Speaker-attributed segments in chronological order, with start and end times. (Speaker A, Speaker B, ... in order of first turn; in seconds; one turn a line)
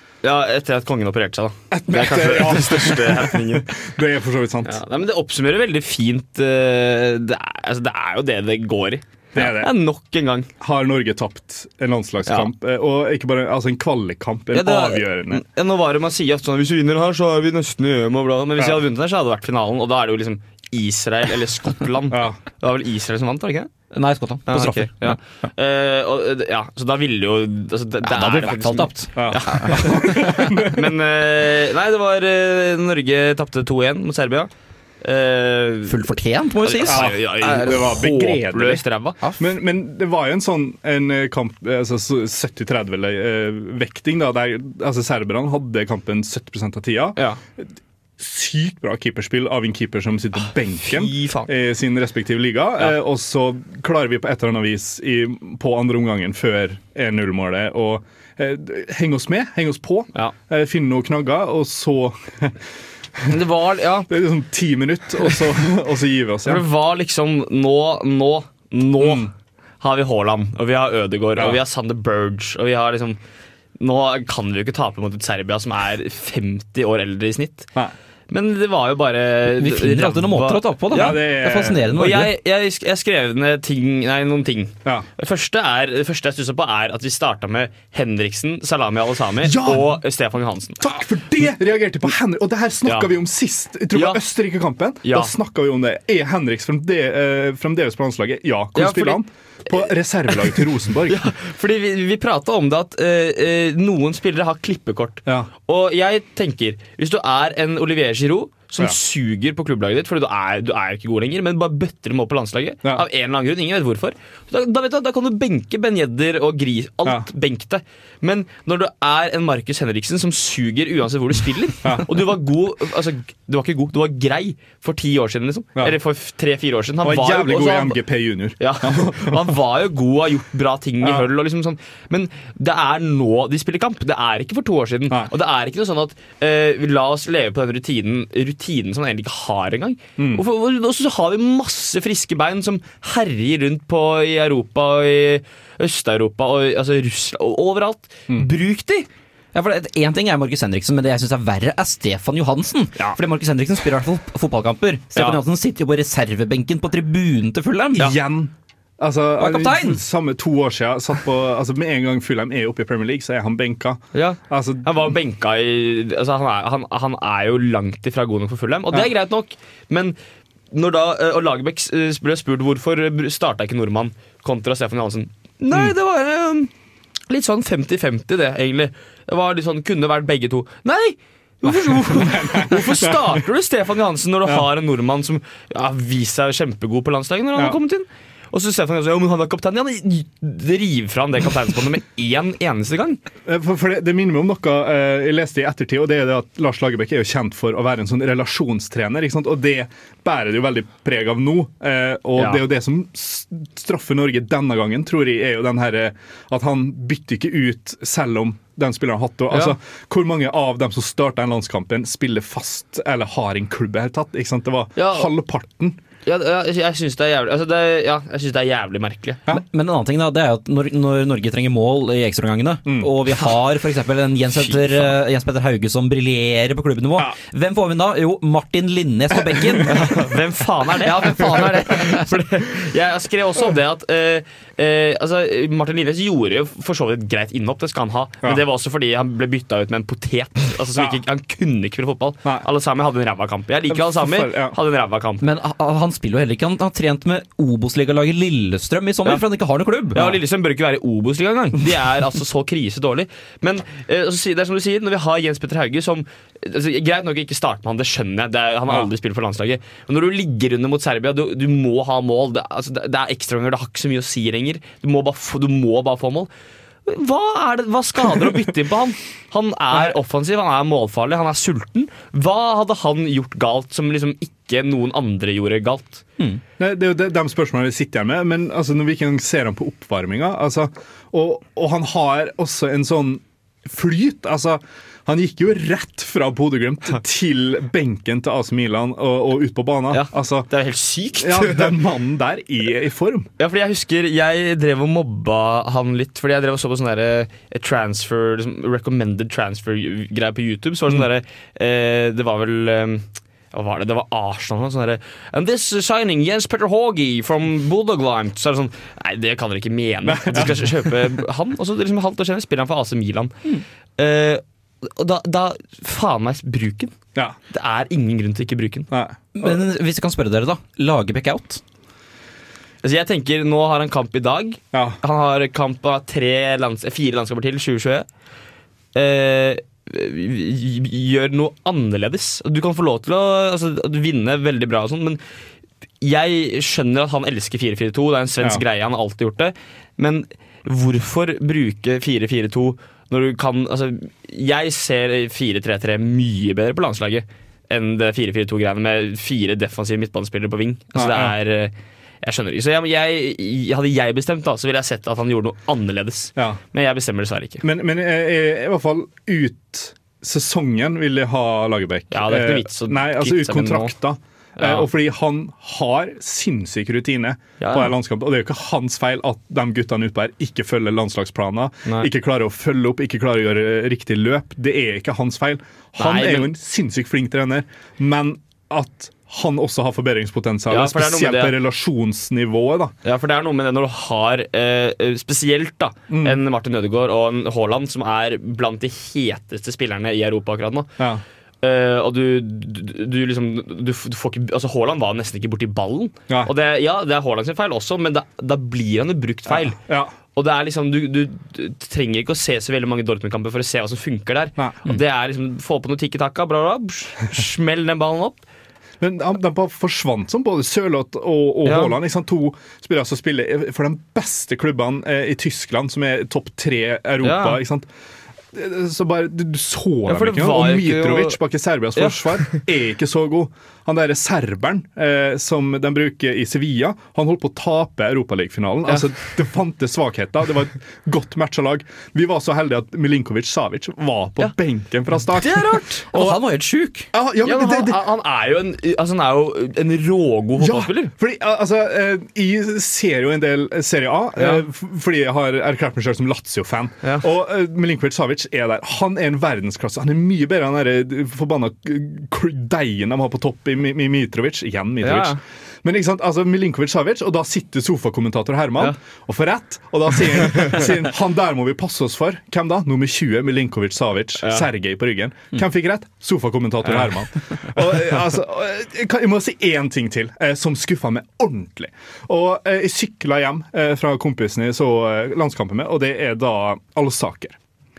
Speaker A: 0.2-3.7
Speaker B: 1.7-4.8
Speaker A: 4.7-10.5
Speaker B: 9.3-9.7
Speaker B: 10.6-15.4
Speaker A: 14.5-23.7
Speaker B: 22.1-22.4
Speaker C: 23.9-25.2
Speaker A: 24.5-34.5
Speaker C: 28.0-30.5
Speaker B: 29.2-30.9
Speaker A: 35.0-36.0
Speaker C: 35.9-37.1
Speaker A: 36.6-39.2
Speaker B: 36.9-38.8
Speaker B: 39.4-47.7
Speaker B: 48.2-62.6
Speaker A: 50.8-51.5
Speaker A: 63.3-64.1
Speaker B: 64.1-66.6
Speaker A: 66.5-69.3
Speaker B: 69.0-69.3
Speaker A: 69.8-73.2
Speaker A: 73.8-77.7
Speaker A: 78.3-81.2
Speaker C: 79.6-82.3
Speaker B: 80.9-81.9
Speaker A: 81.9-90.9
Speaker B: 89.4-90.0
Speaker B: 90.8-101.3
Speaker A: 92.8-93.1
Speaker A: 93.9-94.2
Speaker A: 95.0-95.3
Speaker A: 98.8-99.2
Speaker A: 101.1-128.0
Speaker B: 121.8-122.2
Speaker B: 127.0-129.5
Speaker A: 128.6-149.1
Speaker B: 131.0-131.3
Speaker B: 140.2-140.4
Speaker C: 149.5-158.1
Speaker B: 158.0-165.1
Speaker C: 159.4-160.0
Speaker A: 164.1-170.2
Speaker A: 170.7-176.7
Speaker A: 177.3-193.2
Speaker B: 181.9-183.4
Speaker B: 193.5-216.0
Speaker A: 202.4-202.6
Speaker A: 215.0-215.3
Speaker A: 216.2-219.4
Speaker C: 219.5-230.2
Speaker B: 222.9-223.1
Speaker A: 229.9-245.4
Speaker C: 231.0-232.3
Speaker B: 243.9-244.8
Speaker C: 245.4-250.4
Speaker A: 250.1-266.5
Speaker A: 267.1-276.2
Speaker B: 276.8-290.7
Speaker A: 290.1-292.0
Speaker B: 291.4-293.5
Speaker A: 293.6-313.5
Speaker B: 310.3-311.1
Speaker A: 314.2-317.1
Speaker A: 317.7-319.1
Speaker B: 319.1-319.7
Speaker C: 319.6-321.8
Speaker A: 323.0-328.3
Speaker B: 324.9-325.2
Speaker A: 329.1-335.4
Speaker A: 336.2-357.8
Speaker B: 351.1-351.6
Speaker B: 357.8-383.1
Speaker A: 362.3-364.1
Speaker A: 364.8-365.1
Speaker A: 367.8-368.1
Speaker A: 376.2-376.7
Speaker A: 380.9-381.8
Speaker A: 383.2-391.1
Speaker B: 386.3-386.6
Speaker A: 391.8-400.0
Speaker B: 399.7-400.3
Speaker A: 400.5-408.6
Speaker B: 409.2-418.1
Speaker A: 411.9-412.2
Speaker A: 417.4-417.8
Speaker B: 418.7-436.6
Speaker A: 420.3-421.6
Speaker A: 422.2-422.8
Speaker A: 435.5-436.4
Speaker C: 436.3-437.3
Speaker B: 437.3-438.2
Speaker A: 437.6-441.3
Speaker B: 440.8-477.8
Speaker A: 455.2-455.6
Speaker A: 464.6-464.9